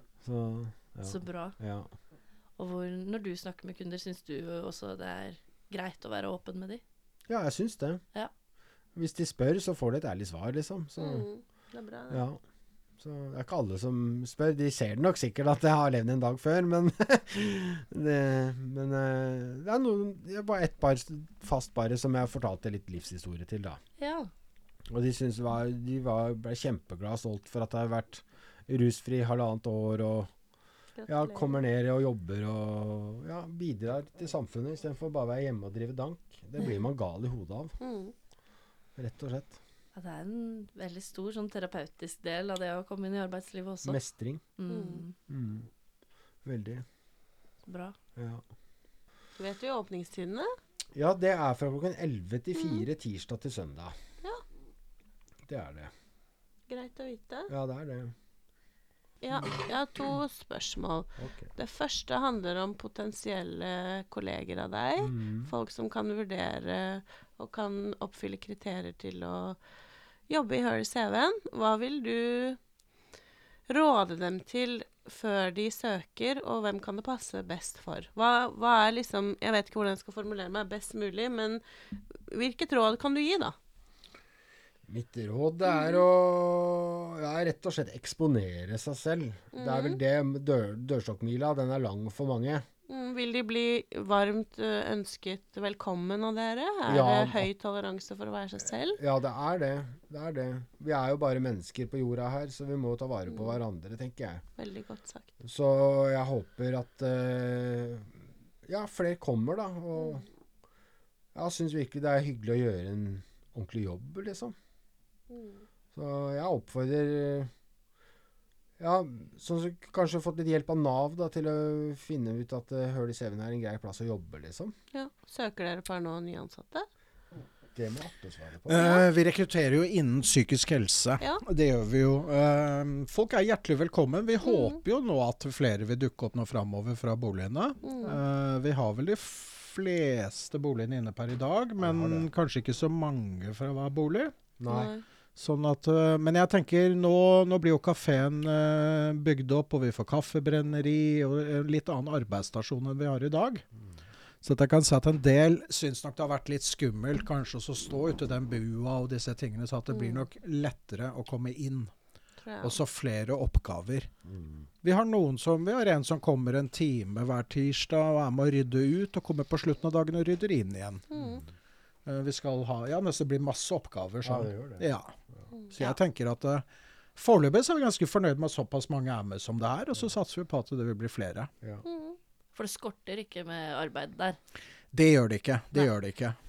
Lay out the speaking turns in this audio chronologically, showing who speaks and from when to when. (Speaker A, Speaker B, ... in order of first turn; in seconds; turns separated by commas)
Speaker A: 0.2-1.9, Speaker B: 1.0-1.6, Speaker B: 2.6-6.8, Speaker A: 7.3-8.0, Speaker A: 8.9-11.3, Speaker C: 11.0-12.2, Speaker A: 12.1-12.4, Speaker A: 13.0-23.8, Speaker B: 24.0-24.3, Speaker A: 24.9-30.3, Speaker C: 31.0-31.6, Speaker A: 31.1-37.8, Speaker C: 37.8-38.1, Speaker A: 39.0-39.6, Speaker B: 40.0-44.0, Speaker A: 43.8-44.4, Speaker B: 44.6-45.2, Speaker C: 44.7-45.0, Speaker A: 45.3-45.7, Speaker A: 46.5-46.8, Speaker B: 47.7-48.0, Speaker A: 48.2-48.4, Speaker C: 49.4-50.5, Speaker A: 51.0-53.9, Speaker A: 55.5-55.9, Speaker C: 56.7-57.5, Speaker A: 57.5-58.1, Speaker C: 59.2-69.6, Speaker A: 61.2-61.5, Speaker A: 65.0-65.5, Speaker C: 70.3-72.6, Speaker C: 73.7-83.5, Speaker A: 84.9-92.7, Speaker C: 89.5-90.0, Speaker C: 92.9-99.0, Speaker A: 96.9-97.5, Speaker A: 99.0-104.4, Speaker C: 104.6-105.3, Speaker A: 105.4-108.1, Speaker A: 108.7-110.2, Speaker A: 111.3-114.5, Speaker C: 115.3-115.6, Speaker A: 115.9-117.5, Speaker A: 118.8-124.7, Speaker C: 124.9-126.9, Speaker A: 127.8-128.9, Speaker D: 128.7-144.3, Speaker C: 128.8-129.1, Speaker C: 134.4-134.8, Speaker C: 137.8-138.2, Speaker A: 141.8-142.3, Speaker A: 144.6-144.9, Speaker C: 144.7-145.0, Speaker D: 145.4-153.6, Speaker D: 154.4-161.9, Speaker C: 159.9-160.3, Speaker C: 162.4-162.8, Speaker D: 162.6-164.1, Speaker A: 164.3-164.7, Speaker D: 164.8-171.1, Speaker C: 171.1-171.4, Speaker D: 172.1-175.1, Speaker A: 174.2-174.8, Speaker D: 175.7-181.5, Speaker C: 181.8-182.2, Speaker B: 182.6-184.4, Speaker D: 184.9-186.4